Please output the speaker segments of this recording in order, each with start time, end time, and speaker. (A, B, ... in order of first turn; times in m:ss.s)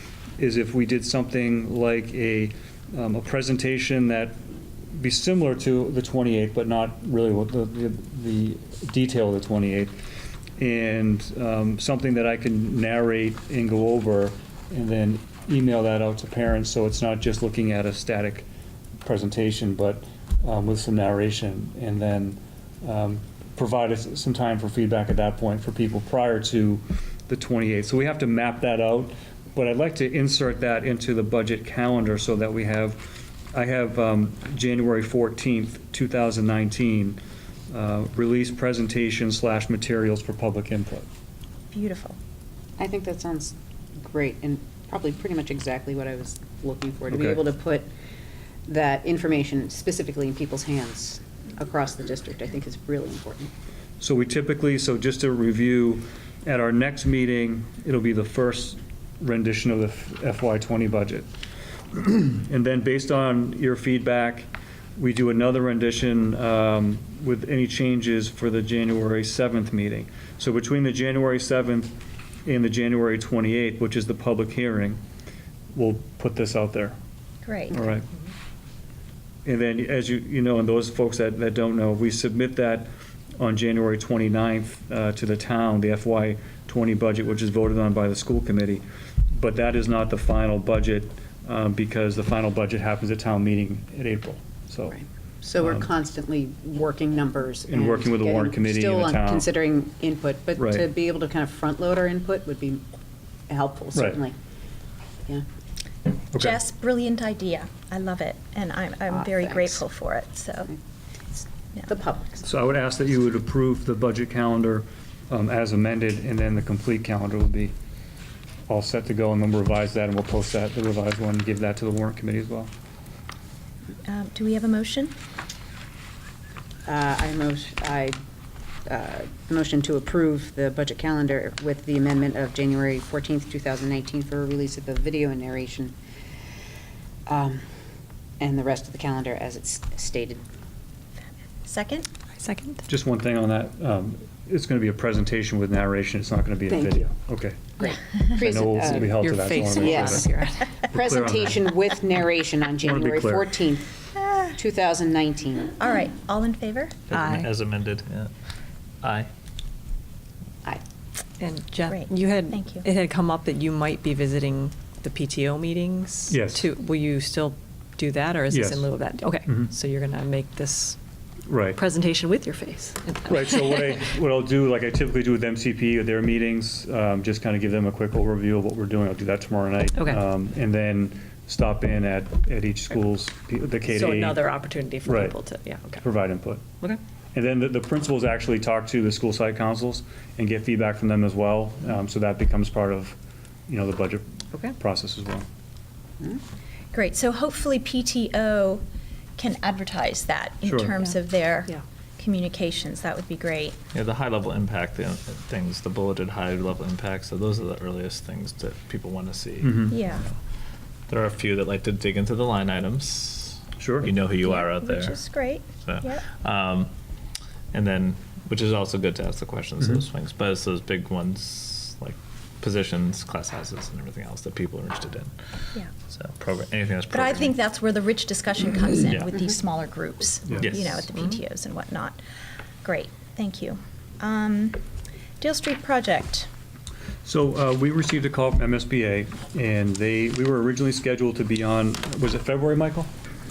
0:00.4-0:04.4 A
0:04.9-0:10.0 A
0:10.6-0:18.5 A
0:19.0-0:37.2 A
0:37.7-0:41.1 A
0:41.7-0:42.2 B
0:42.8-0:47.9 C
0:47.1-0:47.4 A
0:48.7-0:53.5 C
0:54.0-1:01.3 A
1:01.9-1:11.9 A
1:12.4-1:15.0 A
1:15.7-1:17.0 A
1:17.4-1:17.8 B
1:17.7-1:18.1 A
1:19.4-1:22.9 A
1:23.4-1:35.0 A
1:34.9-1:42.8 C
1:35.6-1:35.9 A
1:37.7-1:39.5 A
1:40.6-1:40.9 A
1:43.5-1:44.4 C
1:43.9-1:44.2 A
1:46.3-1:46.6 A
1:46.4-1:50.7 B
1:49.1-1:49.8 C
1:51.4-1:52.4 C
1:52.4-1:57.7 A
1:58.7-2:02.7 A
2:04.0-2:05.2 B
2:06.9-2:08.2 C
2:08.9-2:16.0 C
2:17.3-2:17.6 C
2:18.4-2:20.4 C
2:21.6-2:22.1 B
2:22.4-2:22.8 D
2:22.9-2:27.7 A
2:26.7-2:27.0 C
2:27.8-2:33.9 C
2:28.3-2:30.3 A
2:28.9-2:30.6 D
2:30.9-2:31.6 A
2:32.8-2:33.5 A
2:34.5-2:35.8 C
2:35.8-2:37.1 B
2:37.1-2:38.3 E
2:37.1-2:37.5 D
2:39.0-2:39.3 E
2:41.4-2:51.0 D
2:41.9-2:42.8 B
2:46.3-2:46.6 A
2:48.5-2:48.9 A
2:49.5-2:49.7 A
2:51.5-2:51.8 A
2:51.7-2:54.0 D
2:53.3-3:04.4 A
3:03.9-3:06.1 D
3:05.0-3:05.4 A
3:06.0-3:06.6 A
3:07.3-3:13.2 A
3:13.7-3:15.5 A
3:16.9-3:18.8 B
3:19.4-3:23.8 B
3:20.6-3:21.0 A
3:23.9-3:30.4 E
3:29.6-3:30.0 A
3:29.9-3:30.3 B
3:31.1-3:35.3 E
3:33.8-3:34.1 A
3:34.4-3:36.2 B
3:35.8-3:36.9 E
3:37.7-3:45.3 E
3:46.1-3:47.6 E
3:47.1-3:52.2 B
3:49.1-3:49.3 E
3:50.6-3:51.1 E
3:52.8-3:54.8 B
3:55.4-3:56.5 B
3:57.2-4:03.1 A